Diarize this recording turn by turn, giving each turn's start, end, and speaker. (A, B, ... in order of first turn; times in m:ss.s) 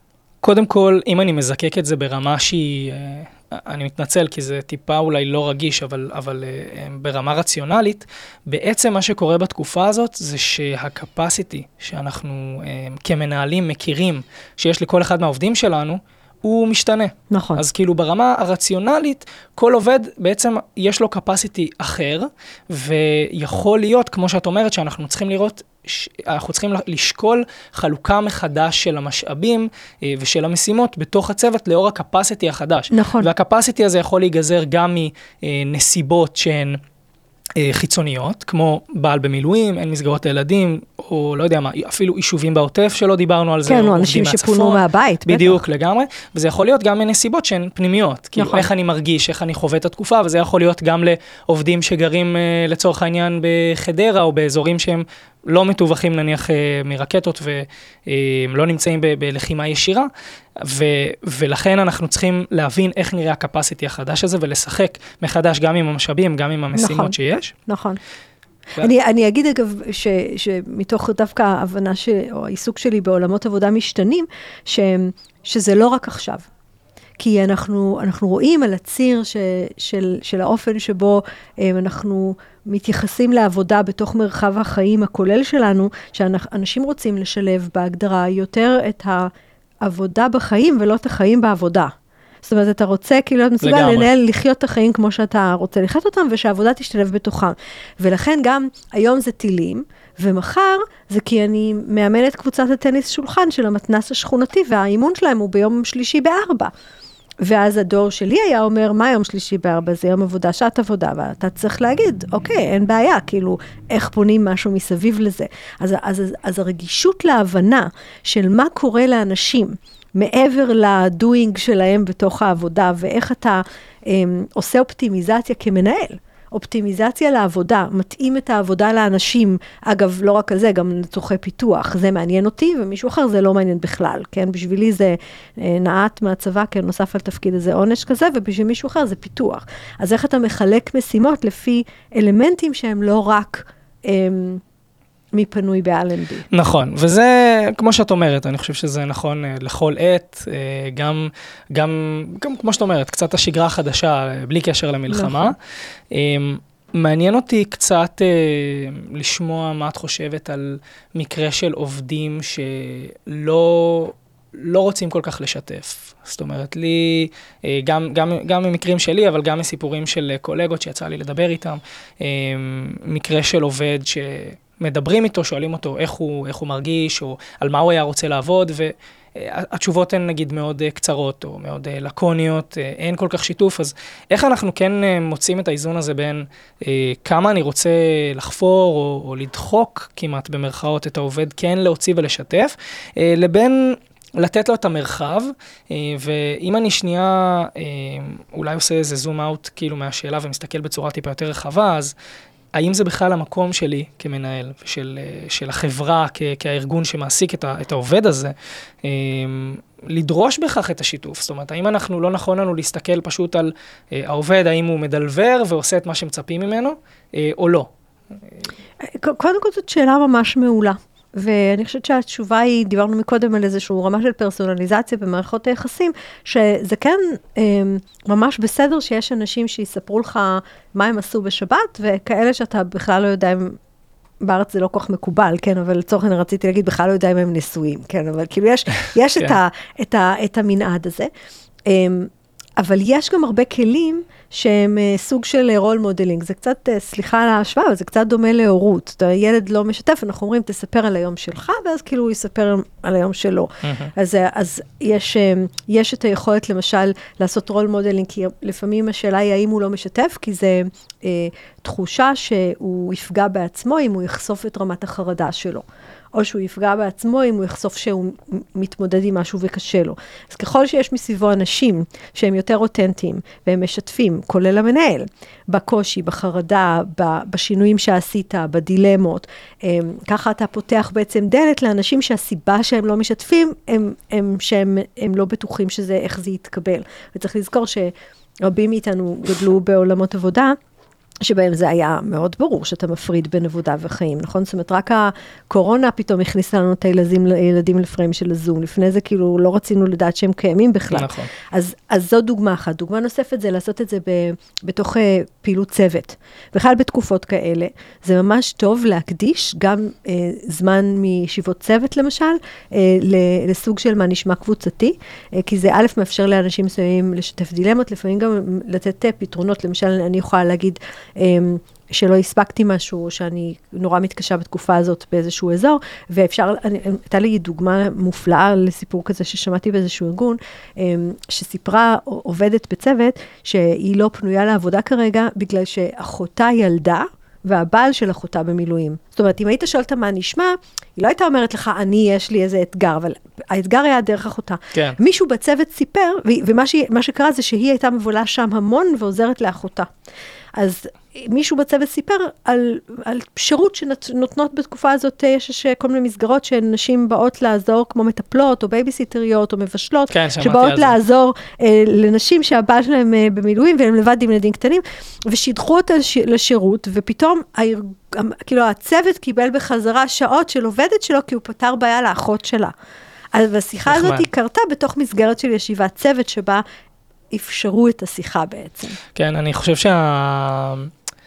0:00.4-0:36.8 A
0:17.3-0:17.6 B
0:32.9-0:33.3 B
0:37.6-1:07.5 A
0:43.7-0:45.6 B
0:48.4-0:48.7 B
1:06.8-1:08.0 B
1:08.8-1:16.5 B
1:17.2-1:29.3 B
1:29.8-1:46.7 B
1:33.6-1:34.1 A
1:47.4-2:24.6 B
2:25.3-2:26.5 B
2:26.5-2:35.6 A
2:35.1-2:35.5 B
2:36.1-3:22.1 A
3:22.7-3:37.9 A
3:39.0-3:53.8 B
3:54.4-4:01.3 B
4:01.9-4:50.8 B
4:13.8-4:14.1 A
4:51.4-5:50.1 B
5:01.1-5:01.5 A
5:50.8-6:12.9 B
6:00.3-6:01.2 A
6:13.5-6:16.8 B
6:14.1-6:14.5 A
6:17.5-6:19.2 B
6:19.4-6:21.1 A